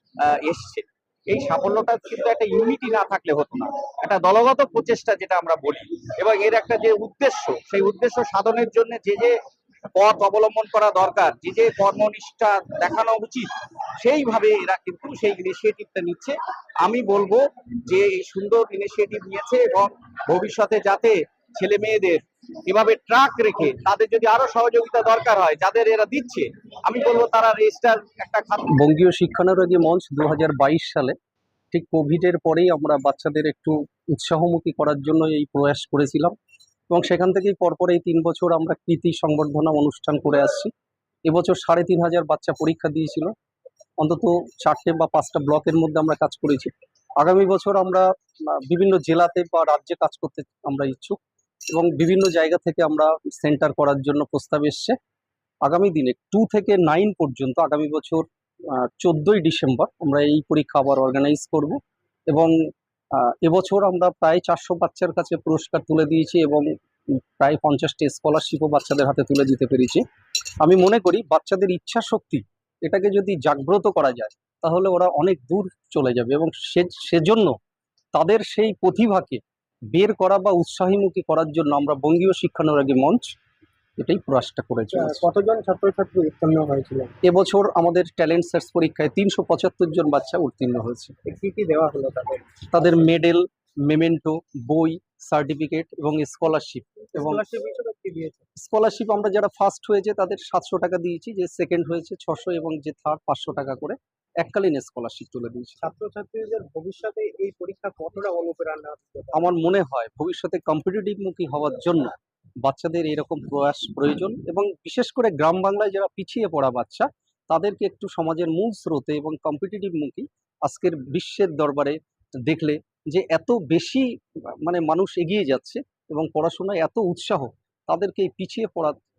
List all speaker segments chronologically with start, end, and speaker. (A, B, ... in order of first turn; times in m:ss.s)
0:00.3-0:09.4 A
0:10.0-0:13.5 A
0:14.0-0:28.6 A
0:28.7-0:31.1 B
0:31.7-0:36.3 B
0:36.9-0:40.7 B
0:41.3-0:43.3 B
0:44.0-0:51.2 B
0:51.7-0:55.0 B
0:55.6-1:01.8 B
1:03.1-1:06.7 B
1:07.4-1:10.0 B
1:10.6-1:17.5 B
1:18.1-1:19.4 B
1:19.9-1:23.3 B
1:24.0-1:25.3 B
1:24.9-1:27.1 C
1:27.2-1:31.1 B
1:31.2-1:32.5 C
1:32.7-1:37.4 B
1:37.2-1:38.4 C
1:38.6-1:45.8 B
1:45.8-1:49.5 C
1:49.3-2:04.0 B
2:04.6-2:09.0 B